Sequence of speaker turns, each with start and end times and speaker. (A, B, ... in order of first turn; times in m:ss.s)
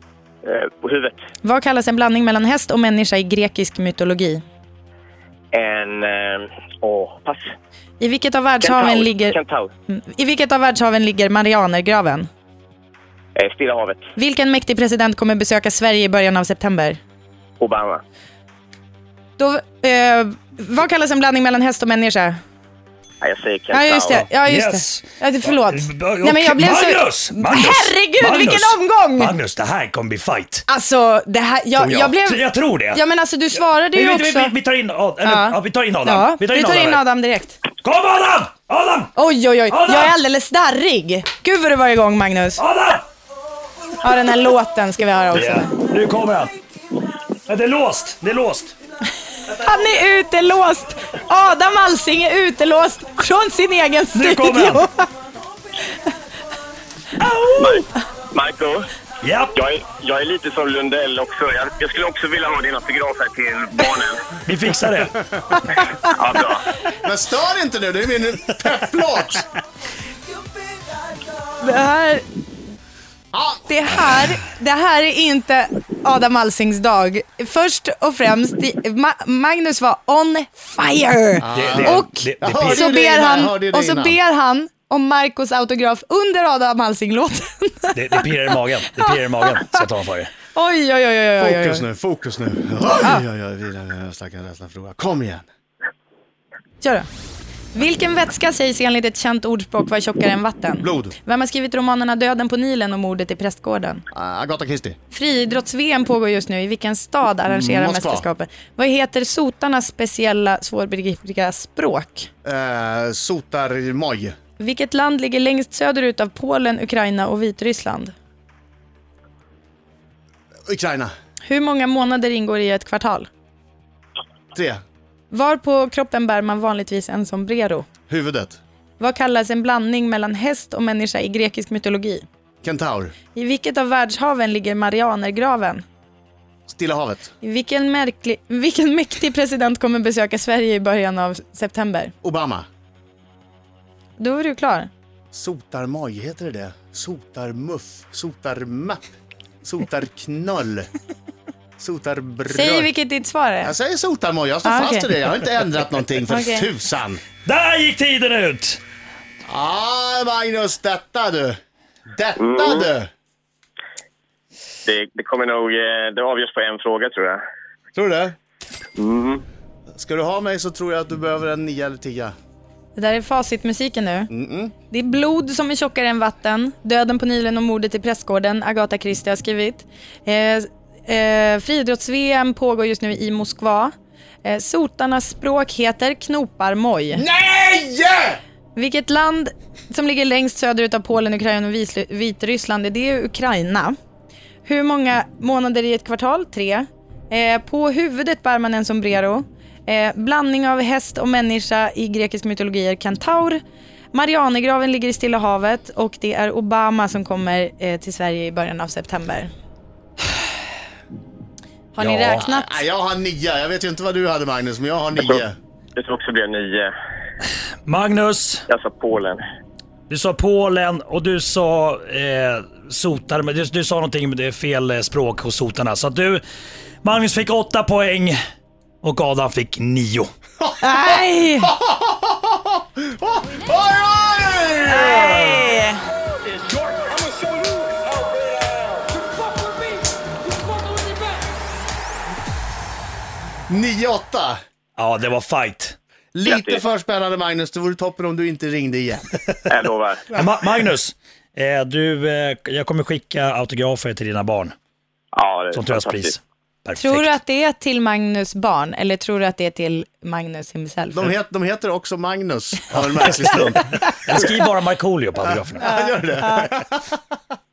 0:00.4-0:01.2 A
0:01.4-0:04.4 B
0:05.5-0:07.5 A
0:08.0-0:09.4 B
0:08.6-0:09.7 A
0:09.9-0:12.3 B
0:13.4-0:14.0 A
0:14.2-0:17.0 B
0:17.6-0:18.0 A
0:19.4-0:22.4 B
0:23.2-0:24.2 A
0:23.7-0:29.3 B
0:24.1-0:30.7 C
0:30.7-0:34.5 B
0:31.8-0:33.0 C
0:33.6-0:37.0 C
0:35.2-0:37.6 B
0:37.8-0:39.2 C
0:39.2-0:42.6 B
0:39.7-0:40.2 C
0:42.6-0:43.1 C
0:44.0-0:45.8 B
0:45.3-0:46.5 C
0:47.5-0:48.8 C
0:49.5-0:55.1 B
0:54.1-0:54.9 C
0:57.2-0:57.5 C
0:57.6-0:58.9 A
0:59.2-0:59.6 C
0:59.6-1:04.3 A
1:04.4-1:05.2 C
1:06.1-1:06.7 A
1:07.0-1:09.5 D
1:11.6-1:12.2 B
1:13.3-1:13.7 D
1:13.7-1:29.8 B
1:21.4-1:24.2 D
1:21.5-1:22.9 C
1:28.0-1:30.3 C
1:30.5-1:31.8 B
1:31.4-1:35.5 D
1:36.8-1:37.1 B
1:37.7-1:44.0 B
1:40.8-1:41.2 D
1:44.1-1:45.0 D
1:45.1-1:52.3 B
1:47.5-1:48.3 D
1:52.4-1:54.3 D
1:54.6-1:58.1 B
2:00.7-2:01.1 D
2:01.4-2:03.3 B
2:04.5-2:04.8 D
2:05.3-2:07.9 B
2:08.1-2:08.6 D
2:09.0-2:12.2 B
2:12.6-2:13.1 D
2:13.4-2:15.8 B
2:16.7-2:17.3 D
2:17.4-2:22.1 B
2:22.2-2:22.7 D
2:24.2-2:24.9 B
2:25.3-2:29.0 D
2:29.6-2:30.9 D
2:31.8-2:32.9 D
2:32.5-2:33.7 B
2:33.6-2:37.2 D
2:34.6-2:35.1 B
2:36.3-2:36.7 B
2:37.4-2:38.8 C
2:39.4-2:43.1 D
2:42.4-2:42.9 A
2:44.8-2:47.4 A
2:47.9-2:48.4 D
2:49.0-2:49.4 A
2:49.9-2:52.3 D
2:53.0-2:54.3 B
2:54.3-2:54.7 D
2:54.9-3:03.9 B
3:04.4-3:07.2 B
3:07.2-3:08.4 D
3:08.8-3:13.9 B
3:14.6-3:23.6 B
3:24.1-3:29.5 B
3:31.9-3:32.8 B
3:32.0-3:32.4 C
3:32.4-3:35.6 D
3:35.2-3:35.4 A
3:36.0-3:36.9 A
3:37.8-3:38.7 C
3:38.7-3:39.4 A
3:40.1-3:46.4 C
3:47.0-3:48.4 C
3:49.0-3:50.3 C
3:50.6-3:55.3 D
3:50.8-3:51.7 B
3:54.9-3:56.0 B
3:55.1-3:55.6 C
4:03.7-4:04.6 D
4:05.0-4:06.0 C
4:06.3-4:09.4 D
4:06.4-4:06.8 A
4:09.7-4:10.3 A
4:10.3-4:14.7 C
4:15.3-4:16.3 A
4:15.7-4:17.4 C
4:17.0-4:21.3 B
4:21.1-4:24.4 D
4:23.1-4:25.8 C
4:25.4-4:27.2 D
4:25.8-4:26.7 B